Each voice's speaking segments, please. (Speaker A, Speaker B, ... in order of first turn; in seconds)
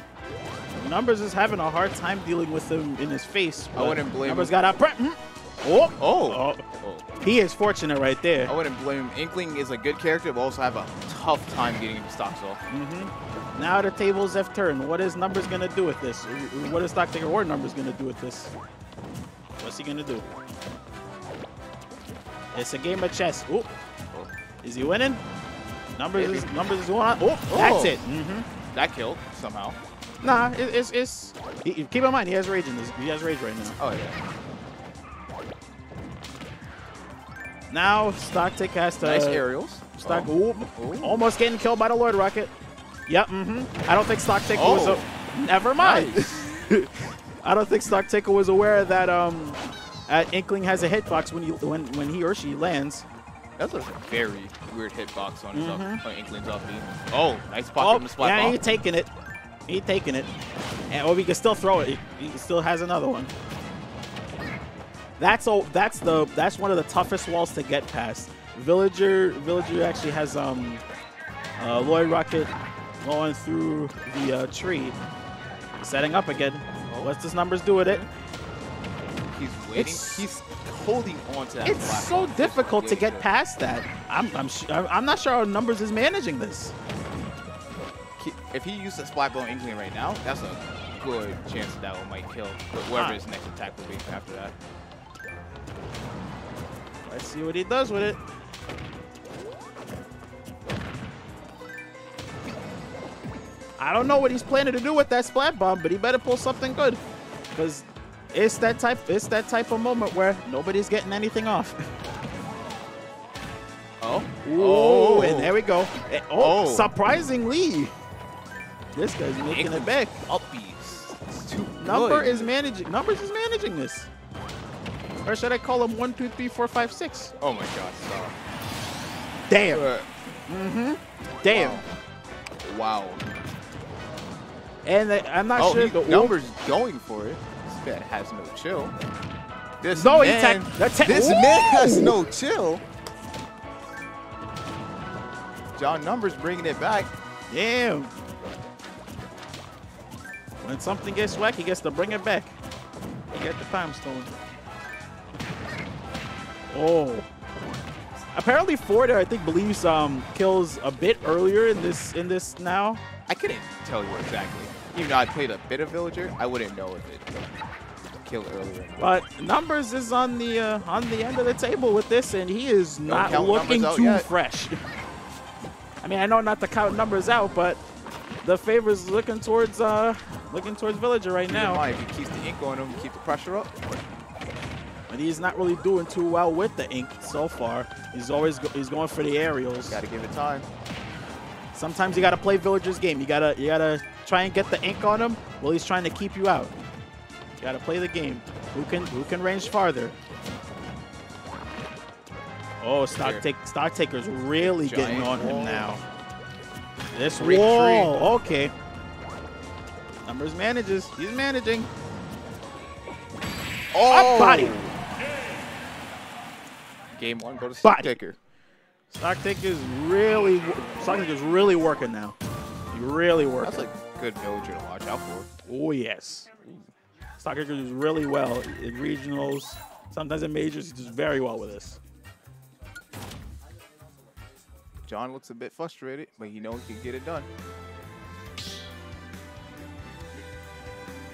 Speaker A: 0.8-6.6, 7.2-8.5, 12.7-18.5, 19.6-20.2, 22.5-23.7, 24.6-25.2, 26.0-28.5, 30.2-33.8, 37.7-39.4, 40.0-42.5, 43.1-53.0, 55.5-56.0, 57.8-59.1, 59.7-60.3, 60.9-63.3, 65.2-70.8, 71.6-75.0, 75.8-78.0, 79.8-80.3, 81.6-86.7, 92.9-93.2, 97.0-98.2, 103.8-107.0, 107.5-111.8, 114.4-117.9, 118.9-120.2, 121.8-124.1, 125.2-127.3, 129.5-129.8, 130.5-131.8, 134.8-136.3, 139.9-142.2, 147.5-148.1, 150.6-152.5, 153.3-154.3, 156.7-157.3, 158.3-163.0, 169.0-174.8, 176.0-177.8, 178.4-181.8, 185.1-190.0, 191.7-196.7, 197.6-200.2, 202.8-206.0, 207.1-208.7, 210.2-211.9, 214.1-214.8, 217.8-218.1, 219.1-222.3, 222.9-223.9, 225.7-226.8, 227.4-232.0
Speaker B: 3.7-4.5, 6.0-7.0, 8.4-12.6, 26.1-26.5, 27.5-28.0, 28.7-29.8, 33.8-34.2, 39.0-41.2, 44.5-45.0, 45.8-46.3, 53.6-58.6, 77.8-78.1, 79.3-83.3, 88.2-94.5, 114.0-115.5, 116.4-116.9, 119.5-122.5, 127.4-128.4, 129.7-130.1, 131.5-131.8, 132.6-133.2, 135.6-138.9, 139.8-142.8, 145.7-147.1, 163.3-167.4, 168.2-169.2, 173.0-174.3, 181.5-183.9, 189.9-190.7, 203.2-203.4, 204.6-205.9, 207.4-208.1, 213.9-214.9, 217.1-218.4, 223.6-225.5, 235.1-237.5